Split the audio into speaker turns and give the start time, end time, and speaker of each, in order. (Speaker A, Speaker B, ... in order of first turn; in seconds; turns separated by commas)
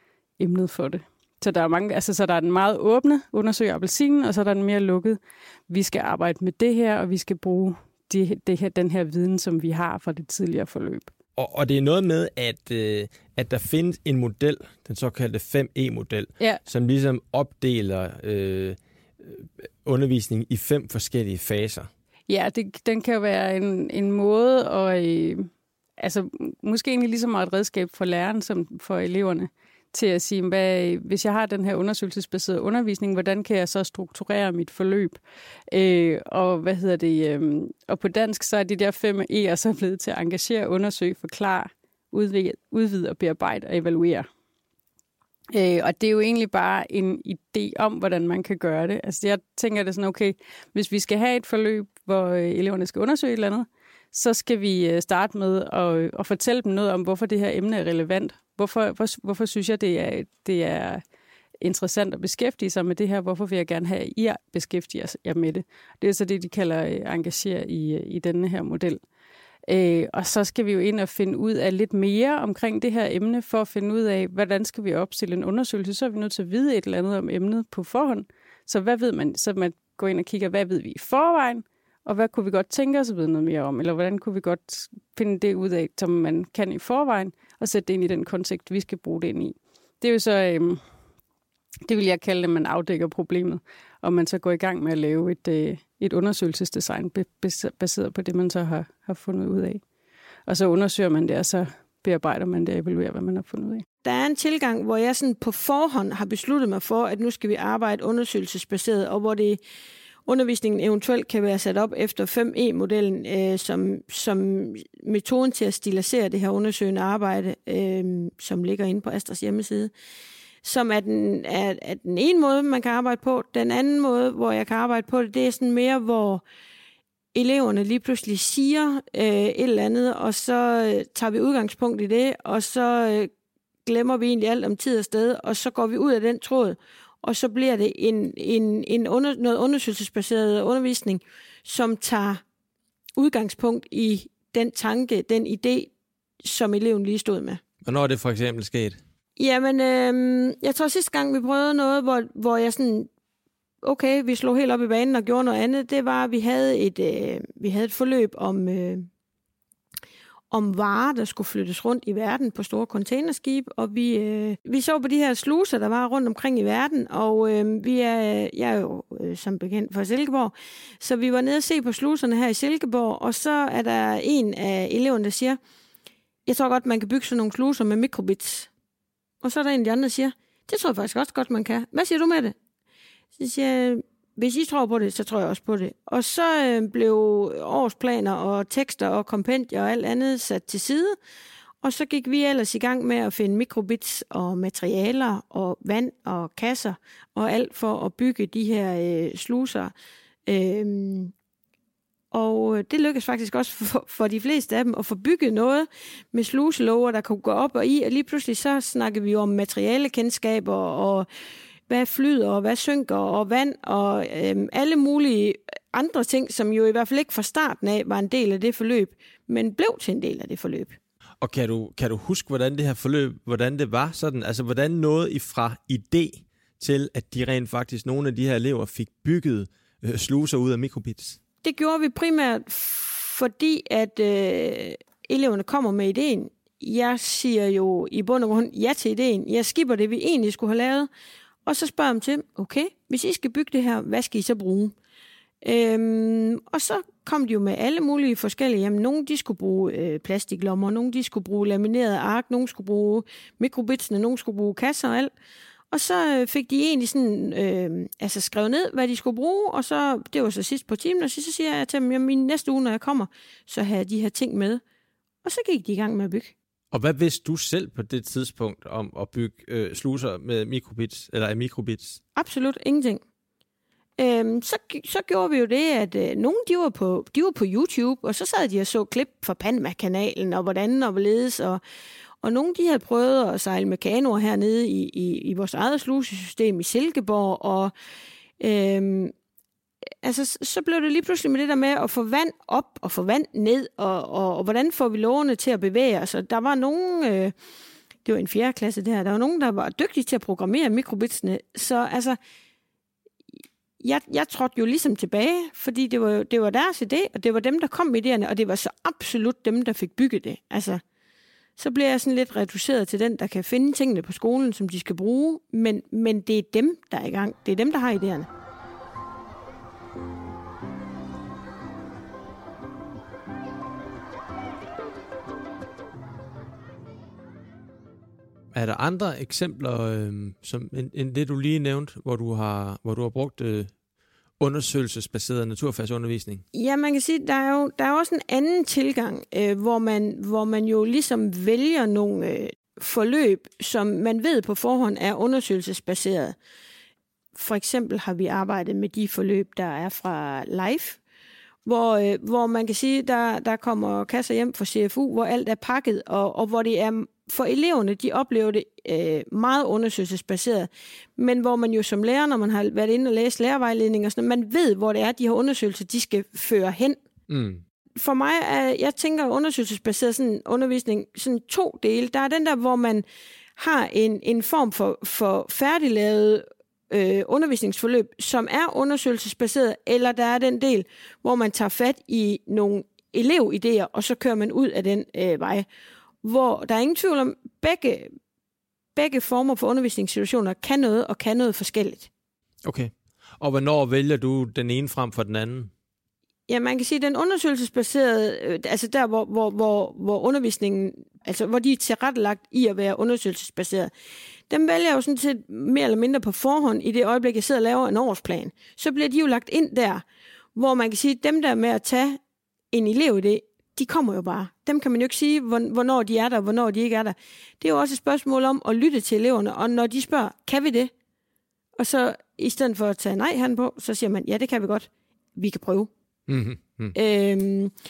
Speaker A: 0.4-11.1, Speaker B: 11.3-21.9, Speaker A: 22.3-25.4, Speaker A: 26.0-44.3, Speaker A: 45.5-61.0, Speaker A: 61.6-69.0, Speaker A: 69.7-90.8, Speaker A: 91.8-99.8, Speaker A: 100.5-103.8, Speaker C: 104.0-109.6, Speaker C: 110.2-119.9, Speaker C: 120.6-126.4, Speaker C: 127.3-133.3, Speaker C: 133.8-142.4, Speaker C: 143.2-145.9, Speaker C: 146.4-147.6, Speaker B: 147.8-149.0, Speaker C: 149.4-153.1, Speaker C: 153.8-159.1, Speaker C: 160.5-175.6, Speaker C: 176.4-178.7, Speaker C: 179.4-182.5, Speaker C: 183.3-191.2, Speaker C: 191.8-199.9, Speaker C: 200.4-201.3, Speaker C: 202.3-211.3, Speaker C: 211.9-221.0, Speaker B: 221.4-231.4, Speaker C: 231.6-241.1, Speaker C: 241.6-244.9, Speaker C: 245.6-255.3, Speaker C: 255.9-264.8, Speaker C: 265.4-266.5, Speaker B: 266.9-272.2, Speaker C: 272.3-273.2, Speaker C: 274.2-281.8, Speaker C: 282.4-287.9, Speaker C: 288.6-289.3, Speaker C: 290.2-297.5, Speaker C: 298.2-302.4, Speaker C: 304.0-311.0, Speaker C: 311.8-318.5, Speaker B: 328.7-333.9, Speaker B: 334.6-336.6, Speaker C: 336.7-346.6, Speaker C: 347.5-351.2, Speaker C: 351.9-367.2, Speaker B: 367.5-367.8, Speaker C: 368.2-373.2, Speaker C: 373.8-385.9, Speaker C: 386.4-388.3, Speaker C: 389.1-392.3, Speaker B: 392.8-395.9, Speaker C: 396.7-404.1, Speaker C: 404.7-410.2, Speaker C: 410.7-412.4, Speaker C: 412.9-421.1, Speaker C: 421.9-426.1, Speaker B: 426.5-427.1, Speaker C: 427.1-427.9